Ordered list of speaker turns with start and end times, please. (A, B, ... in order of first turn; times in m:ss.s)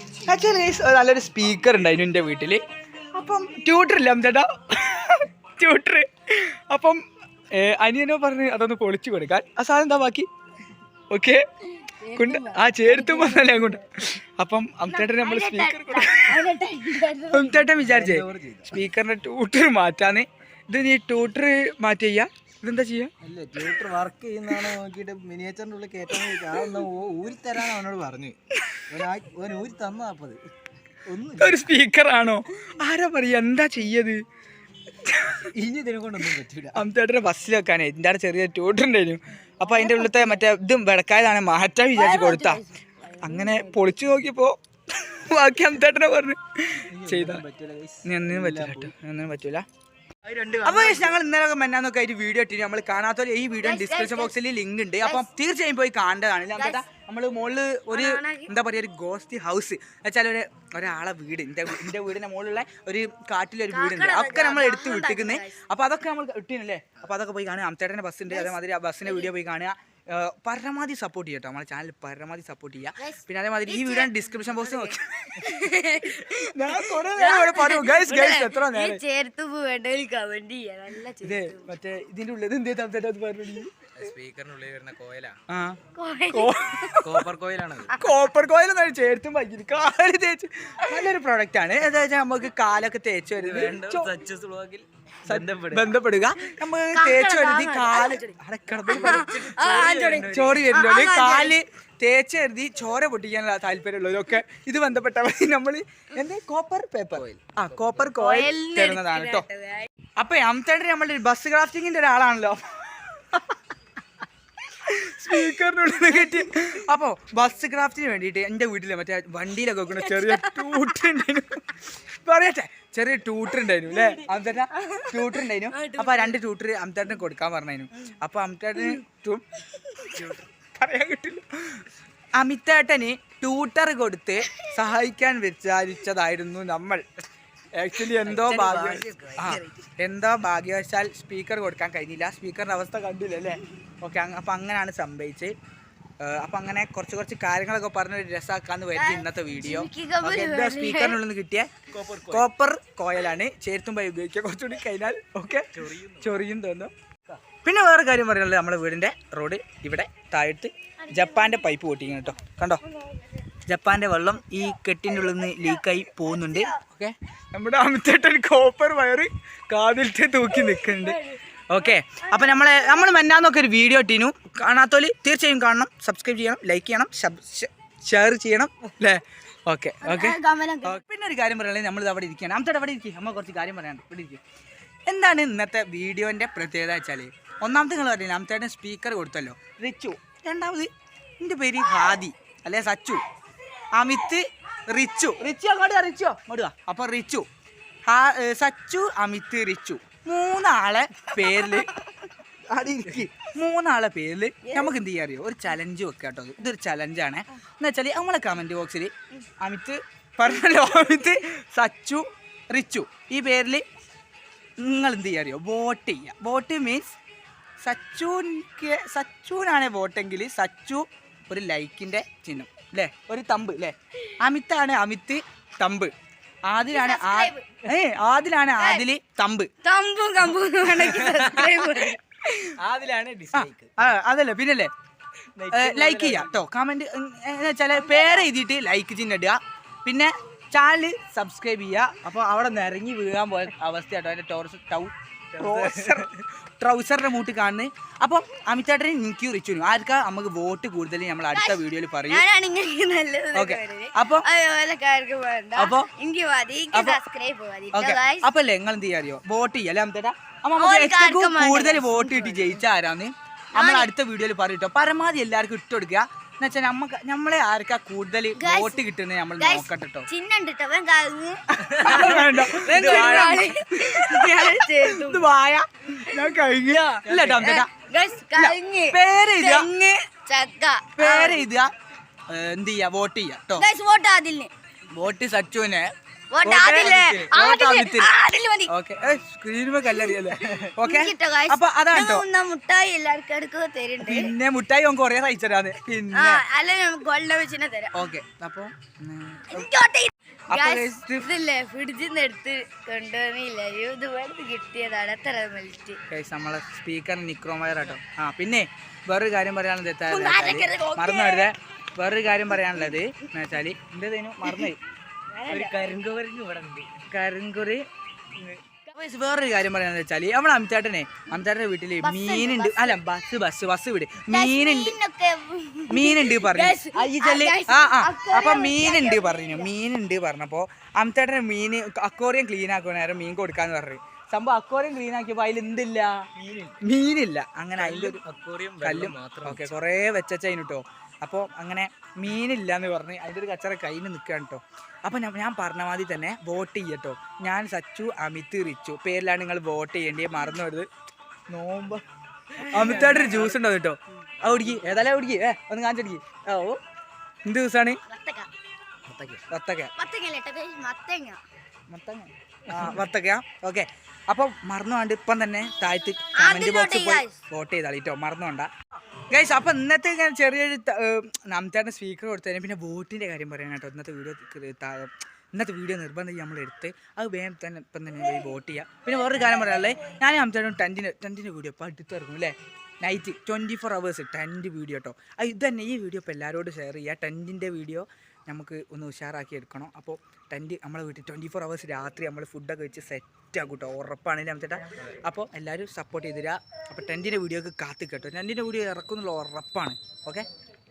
0:00.2-0:07.0 A
0:07.5-0:10.3 A
0:11.1-0:11.4 A
0:11.8-0:13.8 B
0:12.1-0:16.4 A
0:14.9-0:17.7 B
0:17.3-0:23.1 A
0:17.9-0:18.8 C
0:23.2-0:28.4 C
0:26.1-0:26.8 A
0:28.9-0:30.4 C
0:31.1-0:31.6 C
0:31.4-0:34.2 A
0:35.0-0:35.5 A
0:35.5-0:36.8 C
0:36.7-0:42.6 A
0:39.7-0:40.4 B
0:42.0-0:44.1 B
0:43.2-0:47.4 A
0:46.9-0:48.9 C
0:48.0-0:49.7 A
0:50.2-0:51.2 C
0:50.6-1:15.5 A
0:53.6-0:54.3 B
0:56.5-0:56.8 B
0:57.9-0:58.5 B
1:03.7-1:05.5 B
1:13.0-1:21.7 B
1:16.0-1:19.0 A
1:21.2-1:23.8 A
1:24.0-1:25.4 C
1:25.5-1:25.8 A
1:26.0-1:27.0 B
1:26.3-1:27.2 A
1:27.0-1:28.0 C
1:27.9-1:34.1 A
1:33.4-1:35.9 C
1:35.3-1:39.4 A
1:36.9-1:38.3 B
1:38.9-1:41.6 B
1:39.1-1:40.6 C
1:40.1-1:49.5 A
1:47.2-1:48.0 C
1:48.2-1:49.9 B
1:50.2-1:53.6 A
1:54.7-2:09.4 A
1:59.9-2:00.9 B
2:03.9-2:06.4 B
2:09.8-2:10.2 B
2:10.1-2:10.5 C
2:10.7-2:11.8 A
2:12.4-2:17.0 A
2:17.7-2:25.5 A
2:18.2-2:19.8 C
2:26.2-2:31.7 A
2:28.9-2:31.2 B
2:31.9-2:32.5 C
2:32.3-2:36.9 A
2:35.8-2:36.3 C
2:37.6-2:42.8 A
2:41.2-2:41.6 B
2:43.7-3:04.4 A
2:52.2-2:53.1 B
3:00.0-3:01.0 B
3:05.1-3:13.2 A
3:13.9-3:17.5 A
3:18.1-3:21.9 A
3:21.4-3:22.1 B
3:22.7-3:33.8 A
3:24.6-3:24.9 B
3:34.8-3:37.2 A
3:37.8-3:46.1 A
3:46.7-3:49.7 A
3:46.9-3:47.7 B
3:48.8-3:49.0 B
3:49.8-3:52.2 B
3:51.1-3:51.9 C
3:52.8-3:53.9 C
3:53.5-3:54.9 A
3:55.6-3:56.6 C
3:55.7-4:12.4 A
3:58.1-3:58.4 B
4:05.6-4:06.3 C
4:11.5-4:18.5 B
4:13.5-4:14.5 A
4:15.8-4:16.1 A
4:16.9-4:17.2 A
4:17.9-4:30.3 A
4:20.8-4:22.8 B
4:23.8-4:24.1 B
4:28.6-4:29.0 B
4:29.6-4:35.4 B
4:31.8-4:33.7 C
4:32.0-4:37.9 A
4:36.3-4:41.6 B
4:37.2-4:37.8 C
4:38.6-4:39.9 A
4:41.2-4:41.9 A
4:42.5-4:43.9 A
4:43.8-4:44.7 B
4:45.1-4:46.1 A
4:46.5-4:48.9 B
4:46.6-4:48.3 A
4:48.9-4:52.5 A
4:50.0-4:54.5 B
4:54.2-4:56.6 A
4:56.3-4:58.2 B
4:58.1-4:59.9 A
4:59.7-5:06.2 B
5:00.7-5:01.5 A
5:06.3-5:15.0 A
5:10.3-5:11.7 B
5:15.5-5:16.0 B
5:15.7-5:17.1 C
5:17.3-5:18.0 A
5:19.1-5:25.2 A
5:22.2-5:23.2 B
5:24.5-5:29.9 B
5:26.1-5:36.4 A
5:36.6-5:37.0 C
5:37.0-5:38.4 A
5:38.0-5:39.9 C
5:39.0-5:51.1 A
5:51.7-5:52.2 A
5:52.8-5:57.0 A
5:52.9-5:53.8 C
5:53.0-5:53.3 B
5:54.7-5:55.0 C
5:57.6-5:58.2 A
5:58.3-5:58.7 B
5:59.3-5:59.6 C
5:59.5-6:00.1 A
6:00.2-6:01.6 B
6:02.1-6:08.9 A
6:02.9-6:03.2 C
6:06.6-6:07.6 B
6:09.5-6:40.7 A